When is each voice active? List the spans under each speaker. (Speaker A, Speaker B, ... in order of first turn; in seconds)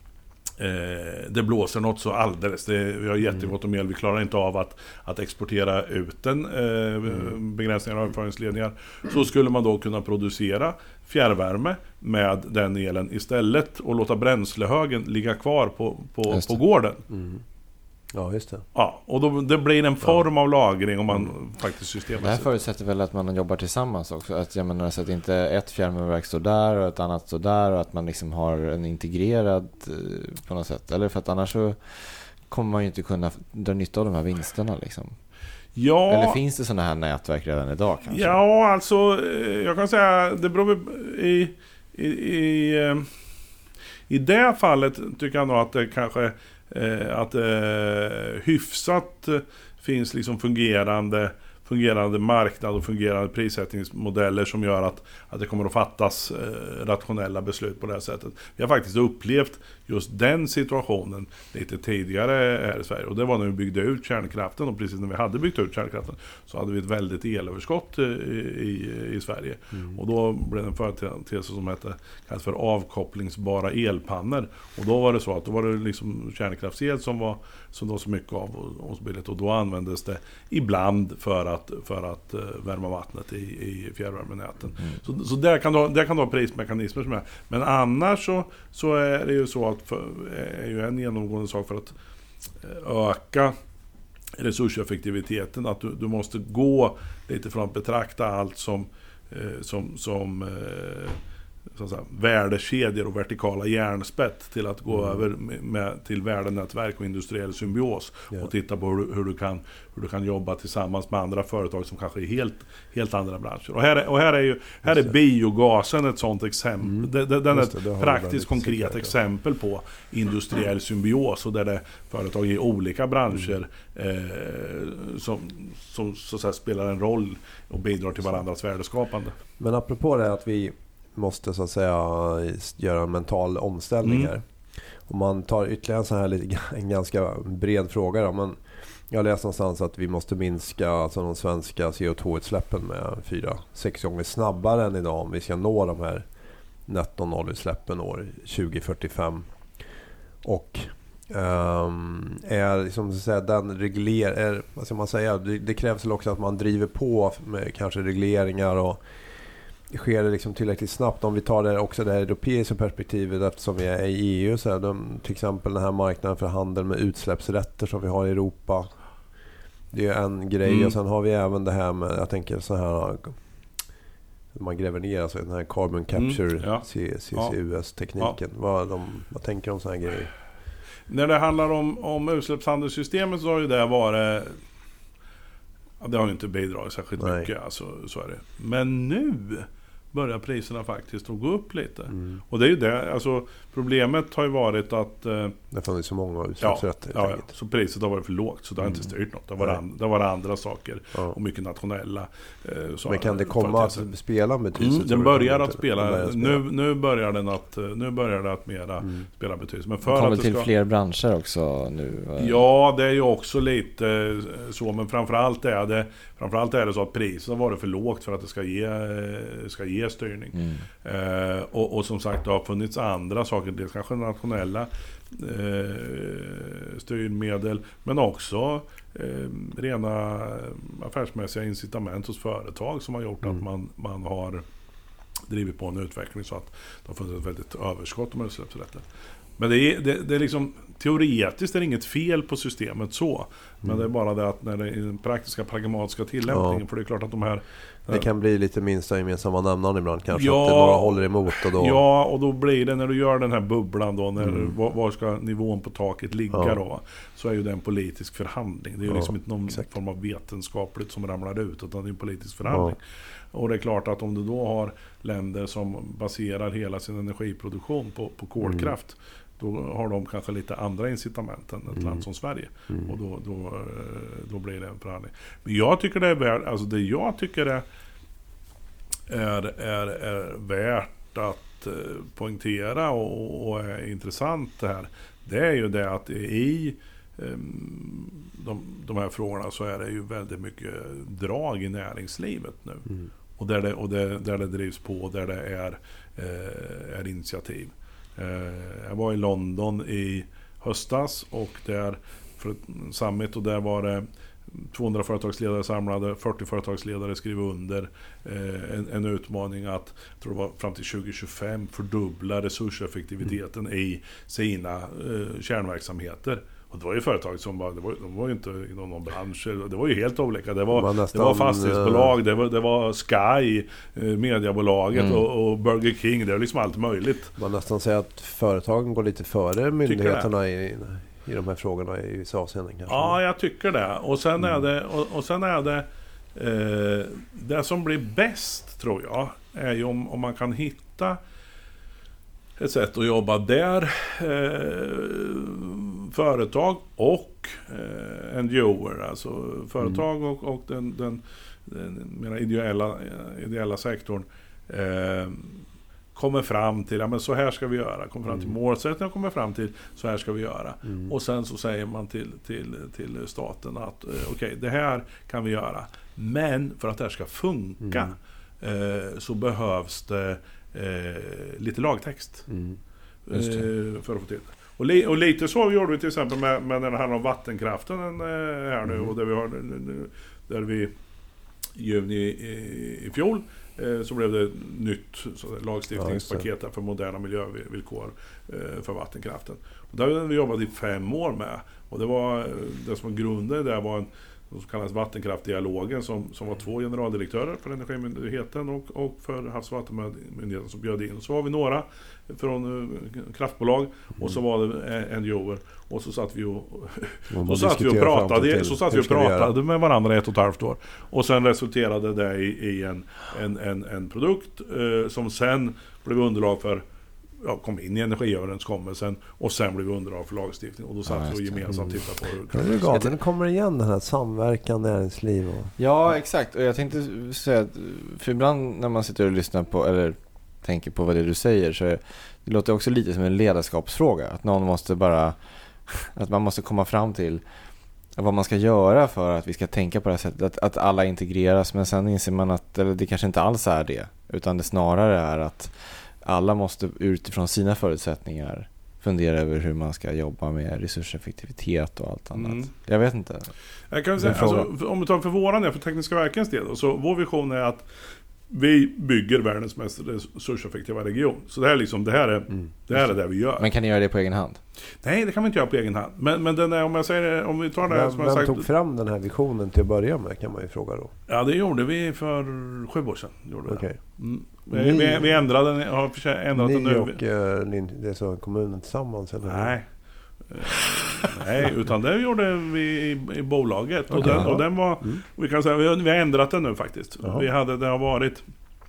Speaker A: 0.6-17.0, 18.8-22.5, 35.8-36.4, 38.1-43.1, 44.1-91.9, 92.6-93.5, 94.4-101.2, 101.7-129.4, 134.0-134.3, 170.7-171.0, 176.1-177.6, 181.1-184.6, 186.0-195.6, 196.6-204.1, 204.8-210.7, 212.4-234.6, 235.5-239.1, 239.6-248.2, 250.3-263.0, 263.5-277.8, 279.3-327.5, 330.1-330.5, 333.1-341.4, 342.8-355.8, 356.4-372.7, 373.5-381.1, 382.0-417.0, 417.6-423.3, 452.6-452.9, 454.1-458.1, 458.7-463.9, 465.2-468.9, 471.5-477.4, 479.6-480.1, 480.7-488.6
Speaker B: 17.1-17.4, 18.1-18.7, 104.9-105.2, 116.8-119.1, 129.6-134.4, 135.1-138.6, 139.1-146.3, 146.9-149.4, 150.4-159.0, 159.9-168.9, 169.9-173.4, 174.5-180.3, 187.2-187.5, 192.1-192.4, 195.7-197.5, 198.8-199.8, 203.1-206.6, 246.5-246.8, 248.1-252.0, 254.4-254.7, 256.5-256.8, 259.1-259.8, 262.7-263.0, 268.6-268.9, 271.9-272.2, 320.9-322.4, 327.6-333.4, 358.5-358.8, 368.1-368.3, 372.7-373.0, 379.1-379.3, 386.2-386.7, 407.5-409.7, 422.7-425.9, 468.1-471.3, 473.9-474.2, 474.9-475.6, 476.7-479.9, 484.3-485.4
Speaker C: 22.2-35.2, 36.1-38.4, 210.1-212.6, 220.5-220.8, 325.2-325.4, 421.3-422.2, 426.0-437.6, 438.4-453.7, 454.5-454.8, 463.8-464.8, 484.4-484.7